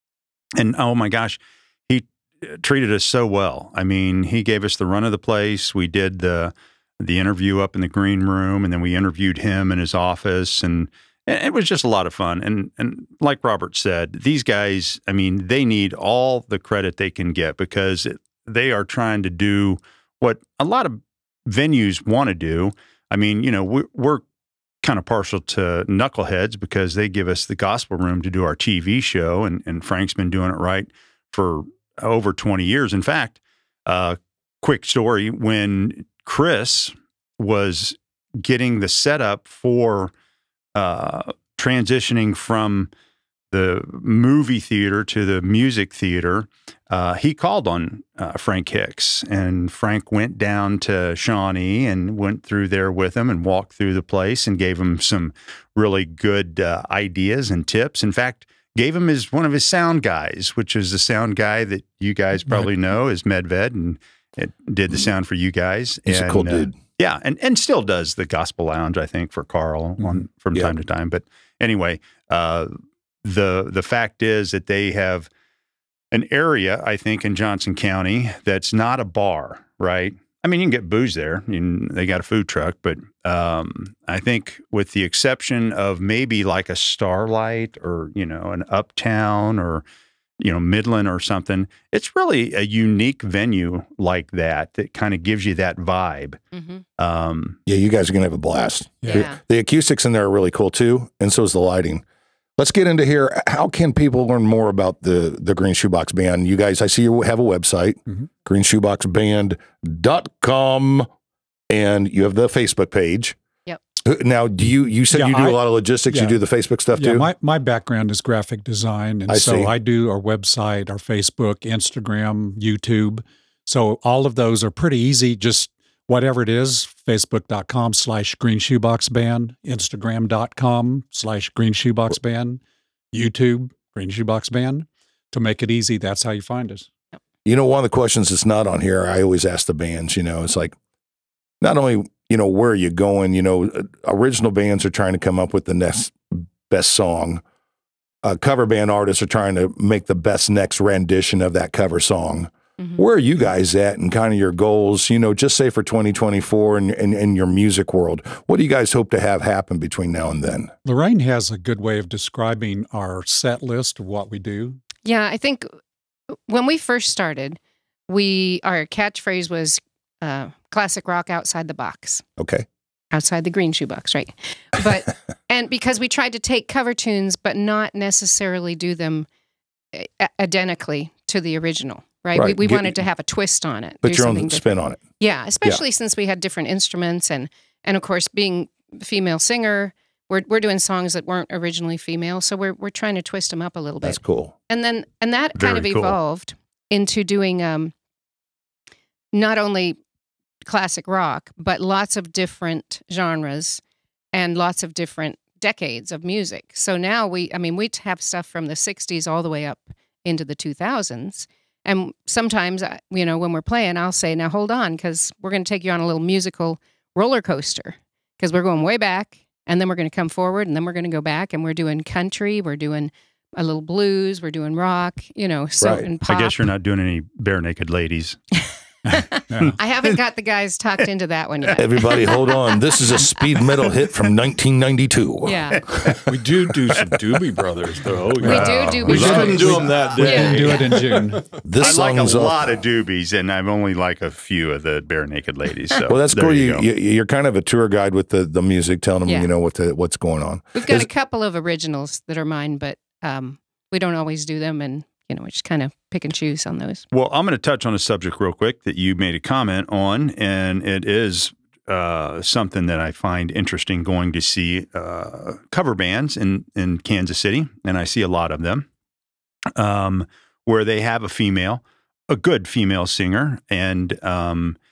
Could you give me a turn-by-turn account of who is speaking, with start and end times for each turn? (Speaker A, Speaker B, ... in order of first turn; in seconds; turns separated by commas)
Speaker A: 0.6-24.2, Speaker A: 24.8-40.1, Speaker A: 40.8-42.9, Speaker A: 43.5-72.7, Speaker B: 66.1-66.8, Speaker A: 73.2-75.3, Speaker A: 76.1-89.8, Speaker A: 90.4-96.4, Speaker C: 96.5-96.8, Speaker A: 97.0-97.6, Speaker B: 97.7-102.0, Speaker D: 99.0-99.3, Speaker C: 99.1-99.4, Speaker B: 102.6-111.1, Speaker B: 111.7-113.4, Speaker B: 114.0-117.3, Speaker D: 115.1-116.4, Speaker D: 117.0-132.6, Speaker B: 119.3-119.7, Speaker D: 133.1-136.9, Speaker B: 137.4-140.8, Speaker B: 141.6-147.4, Speaker B: 148.2-160.7, Speaker D: 160.8-164.8, Speaker C: 165.0-165.7, Speaker C: 166.3-172.2, Speaker B: 172.4-172.7, Speaker C: 173.1-179.3, Speaker C: 179.9-184.7, Speaker B: 182.3-183.0, Speaker B: 184.0-185.0, Speaker C: 185.2-197.9, Speaker B: 194.0-194.5, Speaker A: 195.6-196.2, Speaker C: 199.3-200.0, Speaker C: 200.7-203.8, Speaker C: 204.3-226.6, Speaker B: 225.8-226.1, Speaker A: 226.3-228.4, Speaker D: 229.1-229.8, Speaker C: 229.1-233.6, Speaker A: 229.6-230.2, Speaker B: 231.7-236.2, Speaker C: 235.4-235.9, Speaker E: 236.3-241.5, Speaker A: 238.4-240.2, Speaker C: 238.4-240.8, Speaker D: 238.4-241.4, Speaker B: 241.6-242.7, Speaker A: 241.8-246.8, Speaker B: 246.1-251.1, Speaker C: 250.8-257.1, Speaker A: 257.1-268.9, Speaker A: 269.8-274.8